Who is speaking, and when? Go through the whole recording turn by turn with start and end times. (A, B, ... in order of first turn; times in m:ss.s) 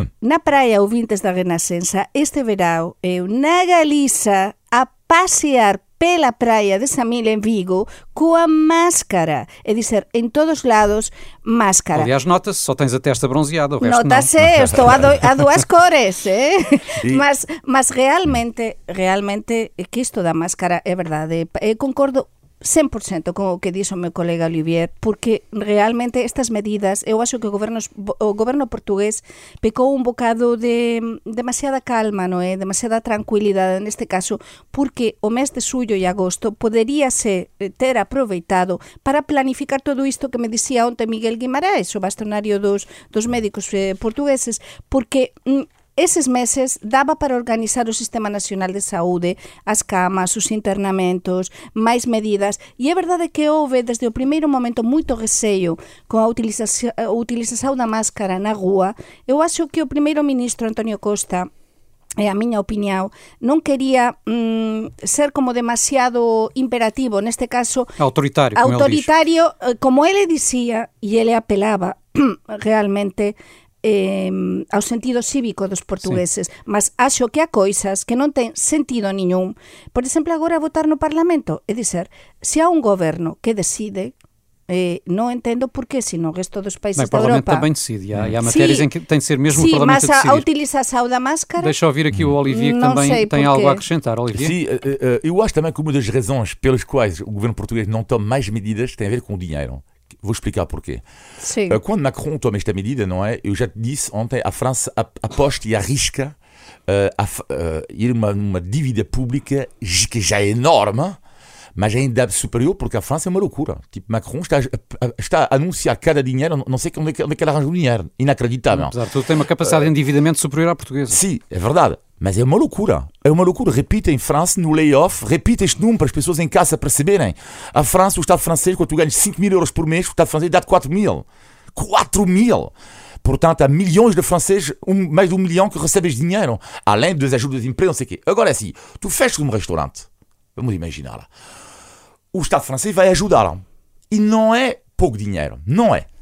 0:00.2-0:12.1 A
0:11.9-0:14.3 B
0:13.8-1:01.5 A
0:17.0-0:17.2 C
1:02.2-1:07.9 A
1:08.0-1:09.1 B
1:08.6-1:24.1 A
1:24.7-1:27.6 A
1:27.0-1:30.4 B
1:28.4-1:28.9 A
1:29.5-1:31.7 A
1:31.6-1:34.5 B
1:32.4-1:33.8 A
1:34.3-1:41.0 C
1:41.4-1:41.8 A
1:41.7-1:46.3 C
1:46.9-1:51.2 C
1:51.8-1:59.0 C
1:58.7-2:01.2 B
1:59.6-1:59.9 C
2:01.1-2:21.3 C
2:22.3-2:26.0 C